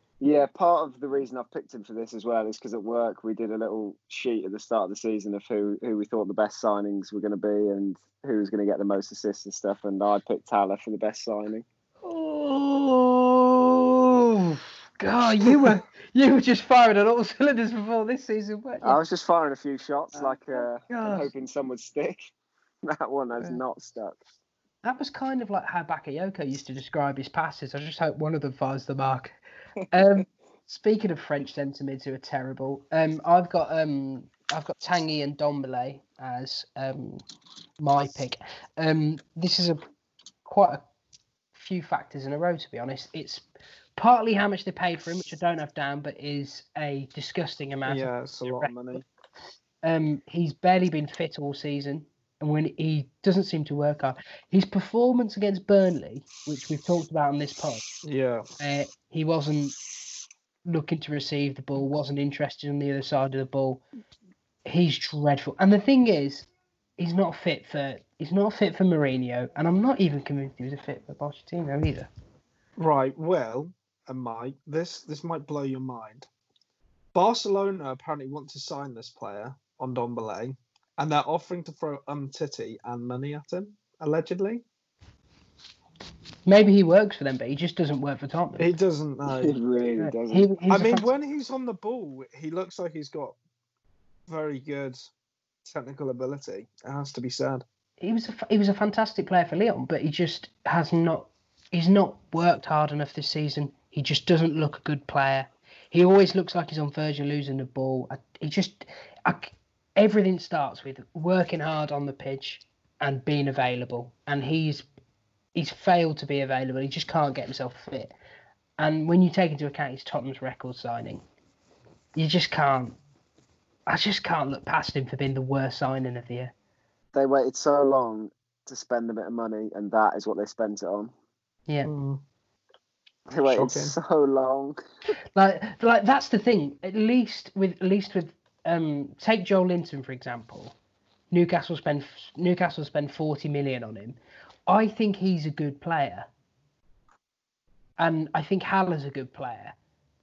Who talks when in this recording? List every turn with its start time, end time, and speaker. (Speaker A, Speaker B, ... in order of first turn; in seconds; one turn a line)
Speaker A: 0.2-11.7
Speaker B: 12.0-19.0
Speaker A: 18.8-22.3
Speaker B: 20.1-21.3
Speaker A: 22.9-24.2
Speaker B: 24.8-29.4
Speaker B: 29.9-37.2
Speaker B: 37.8-39.8
Speaker B: 40.5-40.8
Speaker B: 41.5-43.5
Speaker B: 44.0-49.0
Speaker C: 47.9-49.0
Speaker B: 49.8-57.8
Speaker C: 58.0-58.5
Speaker B: 58.6-59.8
Speaker B: 60.7-63.8
Speaker B: 64.7-72.1
Speaker C: 72.8-76.3
Speaker C: 77.1-84.6
Speaker B: 86.5-88.7
Speaker C: 88.6-89.5
Speaker A: 89.3-90.5
Speaker B: 90.0-91.1
Speaker C: 90.7-93.4
Speaker C: 94.3-95.1
Speaker C: 95.7-97.7
Speaker B: 98.0-114.9
Speaker B: 115.5-118.1
Speaker B: 118.8-121.2
Speaker B: 122.2-123.0
Speaker B: 123.9-126.5
Speaker A: 127.2-131.1
Speaker C: 131.8-132.2
Speaker A: 133.3-134.8
Speaker C: 133.5-133.9
Speaker B: 135.4-140.8
Speaker B: 141.3-144.2
Speaker B: 144.7-146.3
Speaker B: 148.0-149.8